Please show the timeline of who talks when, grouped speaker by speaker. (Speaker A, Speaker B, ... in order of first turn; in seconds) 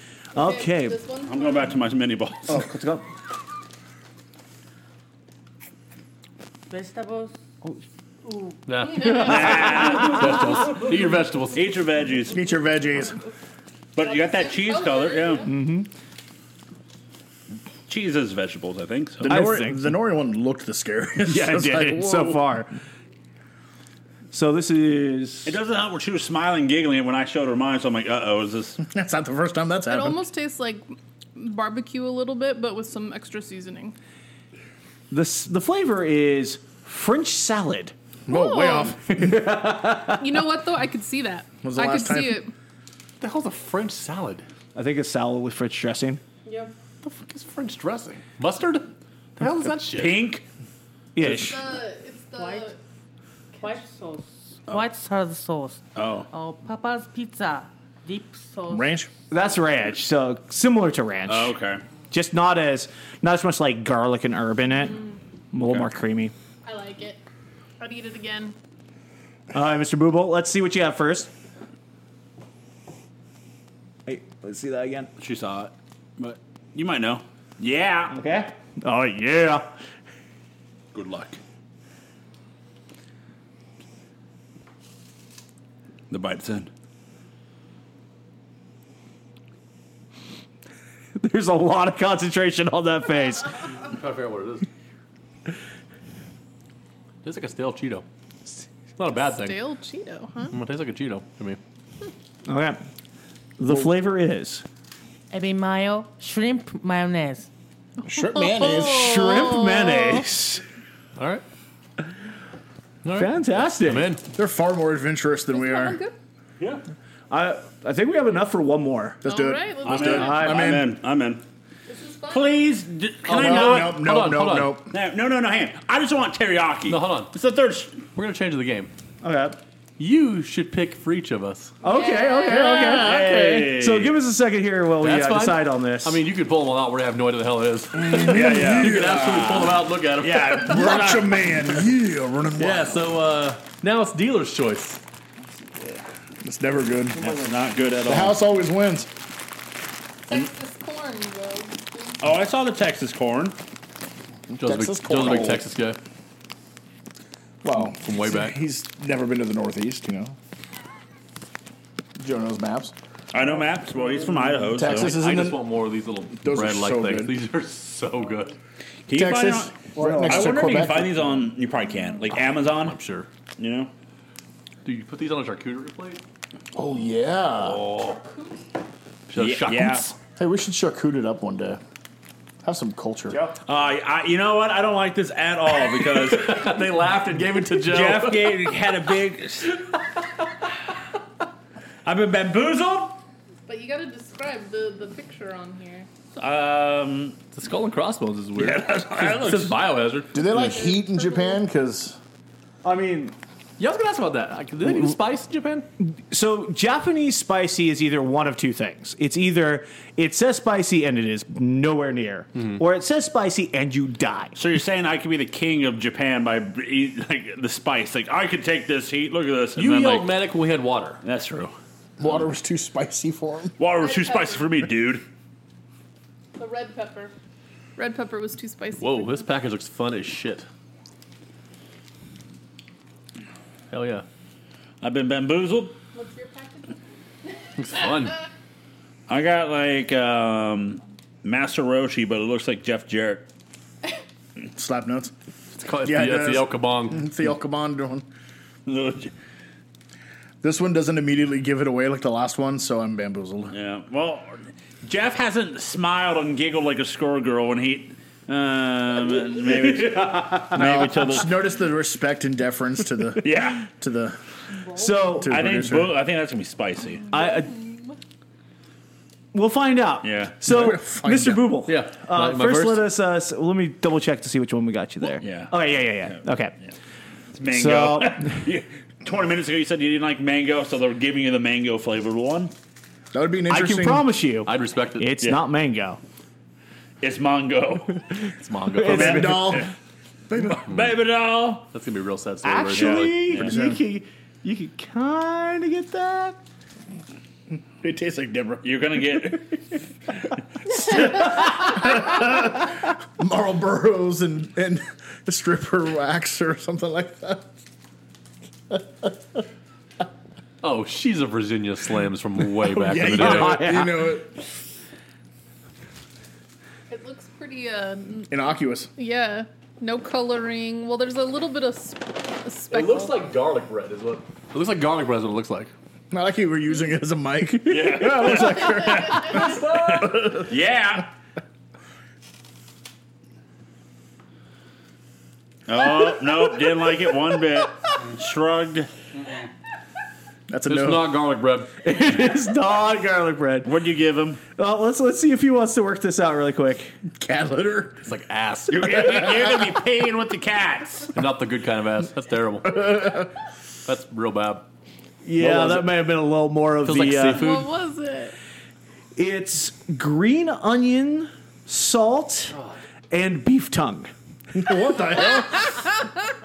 Speaker A: 0.3-1.0, 2.5-3.1, 15.4-15.9, 19.2-19.9, 21.2-22.7, 24.3-25.6, 35.1-37.9, 39.1-40.3, 44.7-46.2, 51.1-51.6, 59.3-61.5, 62.1-65.0, 65.5-66.3, 69.5-71.3, 74.0-75.1, 78.1-79.7, 91.2-93.7, 102.5-102.8, 103.6-104.6, 108.6-110.6, 113.1-114.2, 117.3-119.2, 120.1-120.7, 129.2-129.6, 131.8-136.2, 169.9-170.9, 202.8-203.3, 206.0-214.5, 259.9-260.6, 264.9-265.5, 267.3-267.7, 269.5-276.8, 277.7-278.6, 283.7-286.2, 288.9-289.8, 292.6-296.6, 313.2-314.4, 342.0-344.0, 344.8-347.1, 355.4-357.7, 359.4-362.8, 363.3-364.3
Speaker B: 0.3-1.8, 8.8-10.0, 14.0-15.5, 29.9-34.0, 38.3-39.0, 40.1-42.5, 46.4-46.7, 51.4-52.8, 53.5-53.8, 66.6-67.2, 67.8-68.5, 99.1-100.5, 108.1-110.2, 115.5-116.1, 119.2-120.4, 121.9-122.6, 131.8-133.1, 150.2-152.2, 178.1-178.6, 193.7-196.1, 200.4-201.6, 224.0-224.7, 226.6-227.3, 228.0-229.5, 236.1-237.0, 267.3-268.2, 317.1-323.4, 357.5-358.5
Speaker C: 1.3-2.6, 9.0-10.8, 11.5-12.4, 13.9-15.5, 17.9-19.3, 25.4-28.8, 49.9-50.4, 55.9-56.3, 61.3-61.8, 65.6-65.8, 75.2-78.2, 80.9-81.4, 86.1-86.7, 119.8-121.4, 122.3-124.0, 124.9-128.0, 132.5-134.1, 138.2-139.3, 140.2-141.4, 147.2-148.4, 152.2-153.6, 163.3-165.1, 169.1-173.0, 173.6-173.9, 179.3-180.1, 183.6-186.6, 187.8-189.8, 192.0-193.2, 196.3-197.4, 198.6-199.8, 214.5-220.3, 221.2-221.7, 223.8-225.2, 235.0-236.0, 239.3-243.4, 248.9-249.3, 253.7-261.6, 263.4-263.9, 265.4-267.2, 270.2-270.6, 275.4-276.4, 277.5-282.7, 287.2-288.3, 289.0-289.8, 290.5-291.9, 292.9-293.7, 298.8-299.8, 327.9-330.0, 330.6-331.3, 335.9-339.1, 343.8-344.6, 348.9-351.3
Speaker D: 6.7-8.6, 52.4-52.7, 53.6-58.9, 105.3-107.5
Speaker E: 8.7-11.6, 43.2-44.4, 47.0-50.3, 93.8-94.7, 97.2-98.0, 99.0-99.6, 100.5-101.6, 111.2-111.4, 113.0-114.2, 123.3-124.8, 126.9-127.3, 128.1-128.9, 130.0-131.7, 132.9-133.7, 135.0-141.3, 142.6-145.0, 154.6-156.0, 158.0-158.6, 164.9-168.6, 172.8-173.3, 174.8-176.2, 177.6-178.2, 179.3-180.2, 185.8-188.7, 197.5-200.7, 203.8-205.9, 219.8-221.2, 229.0-230.7, 233.9-234.2, 237.8-238.4, 245.7-247.3, 271.8-273.0, 284.6-285.4, 288.6-289.5, 291.9-293.6, 310.8-313.9, 322.9-325.9, 340.9-342.0, 348.2-349.5, 351.3-353.0, 354.1-354.9, 355.6-356.1, 357.0-357.9
Speaker F: 12.3-13.2, 19.2-22.4, 28.8-30.2, 38.3-39.4, 41.6-42.4, 58.7-59.1, 108.1-109.2, 114.3-116.0, 119.2-120.9, 123.3-124.9, 137.9-139.8, 140.5-143.1, 146.4-147.3, 148.0-149.1, 154.5-155.7, 157.6-160.3, 162.2-162.9, 164.7-165.8, 166.4-167.3, 169.1-171.2, 176.7-177.8, 180.3-181.8, 182.6-183.4, 200.3-202.2, 222.2-223.8, 244.7-245.3, 246.0-248.2, 250.6-253.7, 259.9-264.4, 265.4-266.1, 270.6-271.8, 283.3-284.3, 289.0-289.9, 290.5-290.8, 293.6-294.0, 298.0-298.9, 300.9-307.7, 308.9-309.3, 312.8-314.5, 318.5-319.1, 326.3-330.7, 340.7-341.6, 347.3-348.2, 352.9-353.5, 364.7-365.9